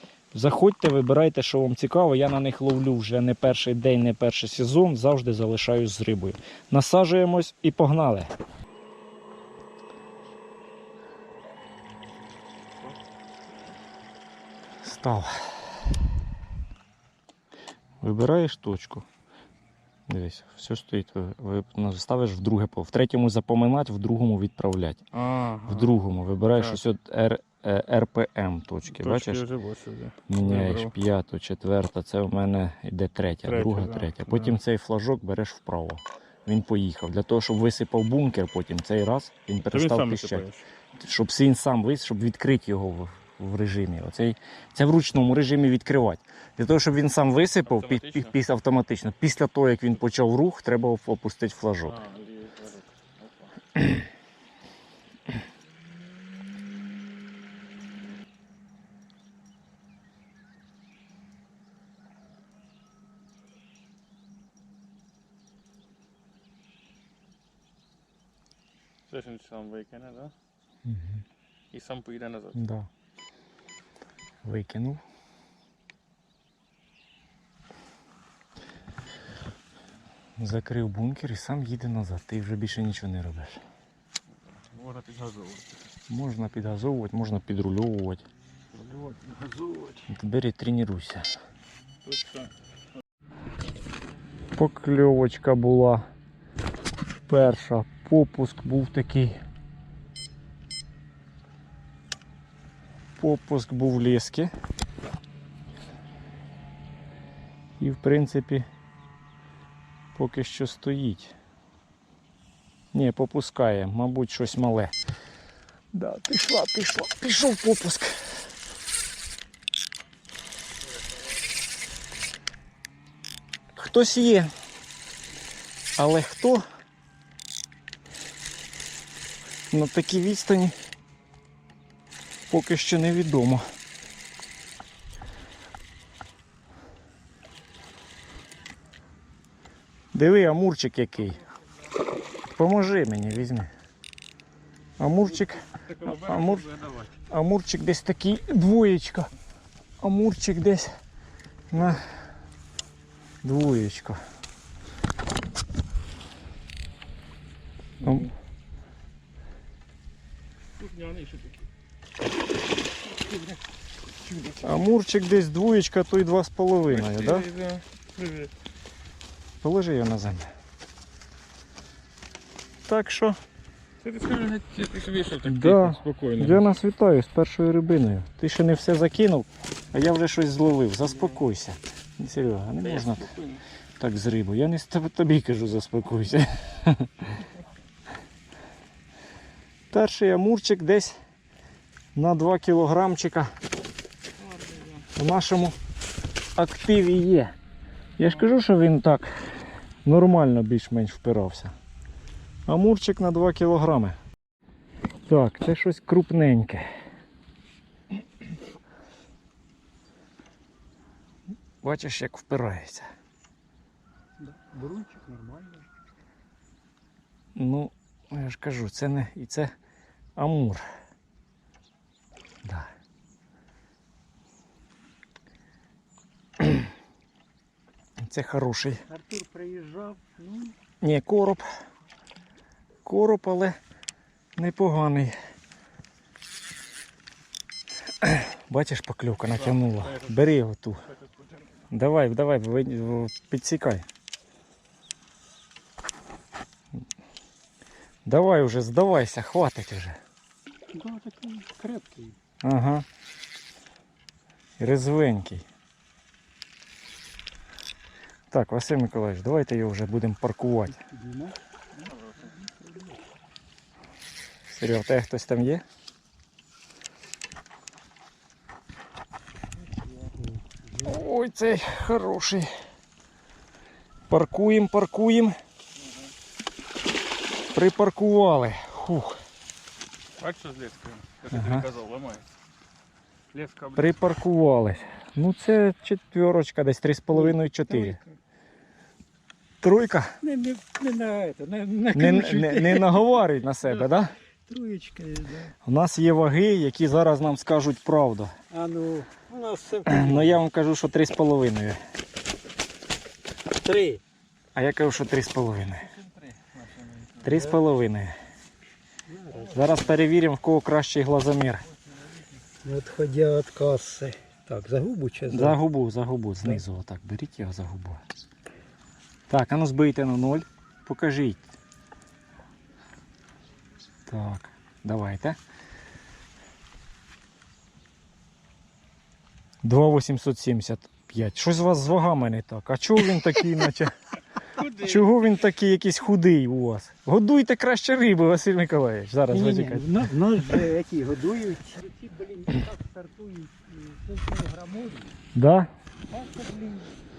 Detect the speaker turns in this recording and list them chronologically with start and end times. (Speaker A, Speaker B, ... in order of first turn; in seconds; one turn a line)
Speaker A: 0.3-8.3
Speaker A: 14.8-15.6
Speaker A: 18.0-19.1
Speaker A: 20.1-25.0
Speaker B: 25.1-25.9
Speaker A: 25.7-29.4
Speaker B: 26.5-26.8
Speaker B: 28.9-30.9
Speaker A: 30.3-40.5
Speaker B: 33.5-34.6
Speaker B: 39.6-40.6
Speaker A: 41.0-52.0
Speaker B: 47.6-48.4
Speaker B: 51.9-53.5
Speaker B: 69.1-70.3
Speaker A: 70.8-71.2
Speaker B: 71.7-72.6
Speaker A: 72.5-72.9
Speaker A: 74.4-75.0
Speaker A: 80.4-83.6
Speaker B: 84.7-85.8
Speaker A: 86.1-88.2
Speaker B: 88.7-90.0
Speaker A: 90.1-91.3
Speaker B: 92.0-92.5
Speaker A: 94.6-96.1
Speaker A: 97.3-99.4
Speaker A: 103.2-104.5
Speaker A: 107.8-108.7
Speaker A: 110.2-111.3
Speaker A: 112.9-114.9
Speaker A: 115.9-118.2
Speaker A: 123.7-124.5
Speaker A: 126.0-126.6
Speaker A: 129.7-130.8
Speaker A: 132.5-133.7
Speaker A: 140.1-141.4
Speaker A: 142.6-143.7
Speaker A: 145.0-146.7
Speaker B: 145.3-147.2
Speaker A: 147.3-149.3
Speaker A: 150.0-151.0
Speaker A: 151.7-152.0
Speaker A: 153.4-154.2
Speaker B: 158.0-158.3
Speaker A: 158.0-158.3
Speaker B: 160.8-161.6
Speaker B: 164.2-164.8
Speaker A: 164.6-167.5
Speaker B: 166.9-168.5
Speaker A: 169.6-170.5
Speaker A: 172.9-173.4
Speaker B: 174.0-176.7
Speaker A: 175.5-183.3
Speaker B: 182.8-183.6
Speaker A: 184.0-187.1
Speaker A: 189.9-191.2
Speaker A: 192.2-193.6
Speaker B: 194.4-195.1
Speaker A: 195.2-195.8
Speaker A: 196.6-197.6
Speaker A: 198.2-199.3
Speaker A: 200.1-201.7
Speaker A: 202.7-204.2
Speaker A: 205.3-206.9
Speaker A: 211.8-213.1
Speaker C: 214.4-215.9
Speaker A: 217.6-219.7
Speaker A: 220.4-220.8
Speaker A: 222.6-222.9
Speaker A: 226.6-226.9
Speaker A: 228.2-229.0
Speaker C: 229.1-230.5
Speaker A: 231.0-231.7
Speaker A: 233.1-233.8
Speaker A: 234.6-235.3
Speaker A: 238.2-241.0
Speaker B: 239.5-240.4
Speaker B: 241.1-241.4
Speaker A: 241.9-244.1
Speaker A: 248.3-250.2
Speaker C: 250.9-252.4
Speaker A: 252.6-253.1
Speaker A: 254.8-255.7
Speaker A: 258.5-261.0
Speaker C: 261.0-261.6
Speaker B: 262.0-262.5
Speaker C: 262.6-263.1
Speaker A: 264.7-265.8
Speaker C: 270.4-271.1
Speaker A: 271.0-272.7
Speaker A: 274.3-275.6
Speaker B: 276.0-276.3
Speaker A: 277.7-279.4
Speaker B: 280.4-282.5
Speaker A: 281.5-281.9
Speaker B: 283.5-284.2
Speaker A: 284.0-288.2
Speaker C: 287.3-288.2
Speaker A: 289.8-290.4
Speaker C: 290.4-293.3
Speaker A: 292.1-294.3
Speaker C: 294.7-295.8
Speaker A: 295.9-298.5
Speaker C: 298.7-300.6
Speaker A: 300.1-302.0
Speaker C: 303.8-304.2
Speaker A: 304.8-306.1
Speaker B: 306.0-307.5
Speaker A: 307.4-308.4
Speaker C: 307.5-307.8
Speaker C: 309.3-310.1
Speaker A: 309.7-311.9
Speaker C: 312.8-315.8
Speaker A: 315.5-318.2
Speaker A: 319.5-321.7
Speaker A: 324.3-325.6
Speaker A: 329.8-334.1
Speaker A: 334.8-340.3
Speaker B: 334.8-335.4
Speaker C: 339.5-345.4
Speaker A: 345.6-345.9
Speaker C: 346.3-347.2